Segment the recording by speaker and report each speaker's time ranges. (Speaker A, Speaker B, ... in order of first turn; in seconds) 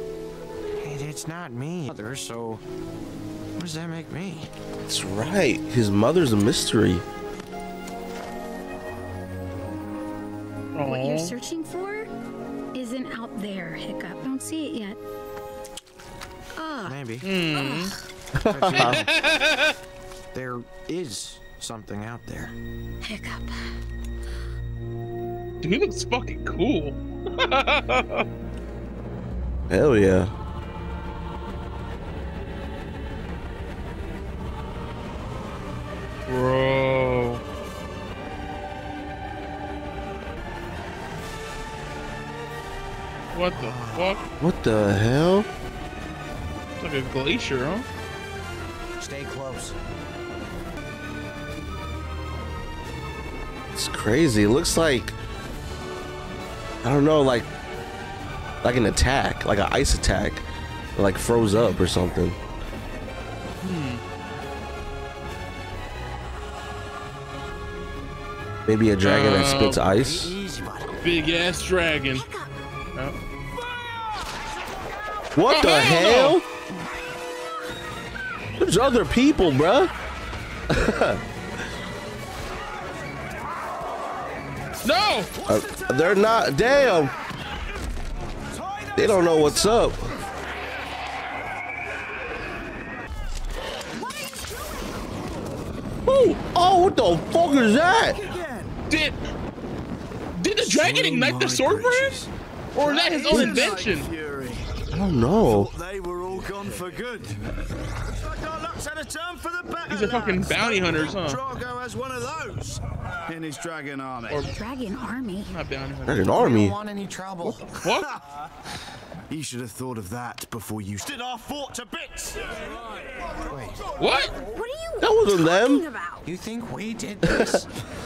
Speaker A: 0.8-2.6, 3.6-4.5, 16.9-17.3, 18.4-19.1, 20.3-22.6, 43.7-44.2, 49.0-49.8, 69.8-70.9, 116.3-117.7, 123.5-123.8, 126.2-127.7
Speaker B: 4.9-7.0, 18.4-19.0, 29.7-30.3, 44.4-45.5, 53.8-55.1, 56.8-57.5, 58.6-60.4, 61.0-62.4, 68.7-70.4, 75.3-76.5, 78.6-79.9, 80.7-81.2, 85.5-87.1, 89.0-90.1, 96.1-98.2, 103.3-103.7, 104.9-105.7, 116.1-116.8, 125.0-125.8, 127.3-127.6
Speaker C: 10.8-11.3, 17.2-17.9, 18.7-19.8, 25.6-28.2, 36.3-37.4, 43.3-44.2, 46.8-47.9, 63.6-64.0, 69.0-69.8, 71.0-72.3, 75.5-76.4, 84.8-85.3, 98.9-99.2, 100.4-104.1, 109.9-111.4, 115.5-116.4, 117.7-118.1, 124.0-124.3
Speaker D: 10.8-12.1, 12.7-15.0, 16.6-17.0, 17.5-18.0, 23.0-23.7, 72.1-72.5, 114.5-115.5, 124.0-126.3
Speaker E: 85.3-87.1, 88.5-90.2, 93.9-95.2, 97.7-98.8, 100.6-104.7, 105.4-107.4, 108.0-114.5, 119.3-122.8